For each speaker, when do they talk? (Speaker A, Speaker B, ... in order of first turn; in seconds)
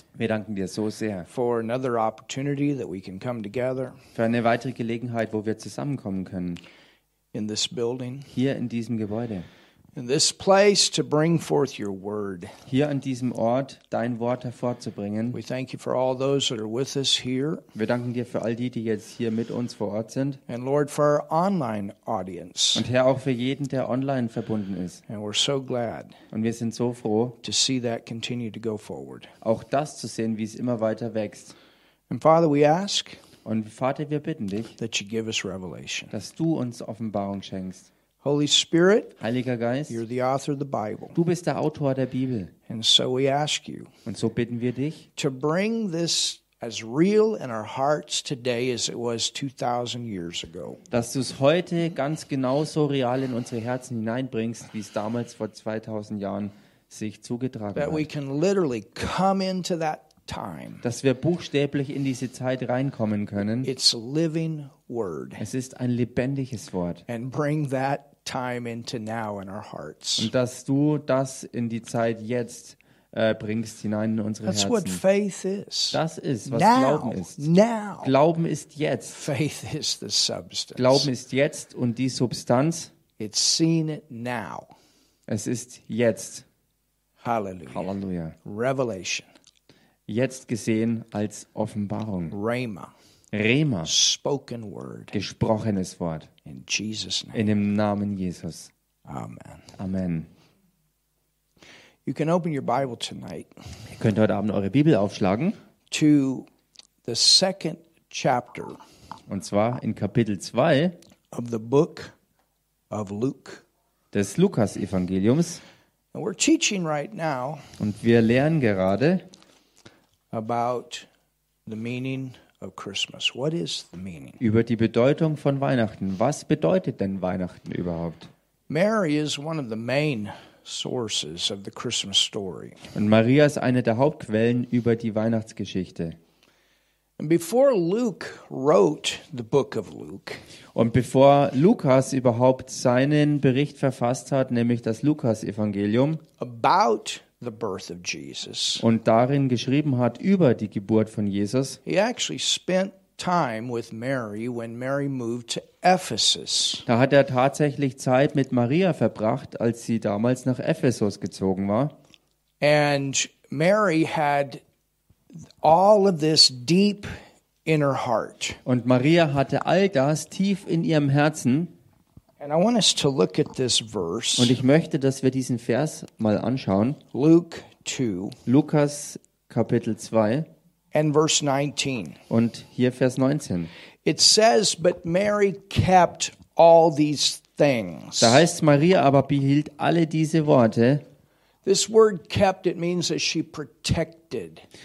Speaker A: 0.2-1.3, 4.1-6.6, 8.3-9.5, 12.7-15.4, 17.7-20.4, 22.7-25.0, 26.3-27.4, 29.4-31.5, 33.4-34.8, 36.1-37.9, 39.2-40.0, 41.1-42.5, 44.0-45.0, 50.9-58.1, 60.8-63.7, 65.4-67.0, 70.2-75.0, 75.9-77.4, 78.0-79.2, 80.8-82.9, 85.3-86.4, 87.7-88.3, 90.1-92.3, 93.3-93.9, 95.1-96.3, 97.3-98.7, 99.8-100.3, 103.9-105.5, 109.3-110.9, 114.1-115.6, 117.8-119.2, 124.4-128.3, 132.9-136.2, 140.7-146.2, 148.8-151.8, 156.9-161.9, 168.7-171.7, 174.4-177.0, 178.4-180.5, 182.3-183.7, 188.2-191.0
Speaker B: 1.3-4.0, 7.3-8.3, 9.9-12.5, 15.3-17.6, 20.5-22.8, 25.1-26.1, 27.4-29.3, 32.1-33.2, 34.8-36.1, 38.2-39.1, 39.9-41.1, 42.7-43.9, 45.1-50.8, 57.7-60.8, 63.6-65.4, 67.1-70.3, 74.4-78.1, 79.1-81.1, 83.2-84.7, 87.2-87.9, 88.4-89.3, 92.3-92.9, 93.8-95.2, 96.4-97.5, 99.1-99.7, 102.0-103.5, 105.9-106.5, 107.0-108.8, 111.3-112.1, 112.9-113.6, 116.1-117.6, 120.3-121.1, 121.7-124.4, 128.7-132.8, 137.2-140.4, 146.4-148.8, 151.8-156.8, 162.6-164.6, 165.6-167.1, 167.6-168.6, 172.4-174.6, 177.1-178.4, 180.9-182.2, 184.0-188.4, 191.6-194.6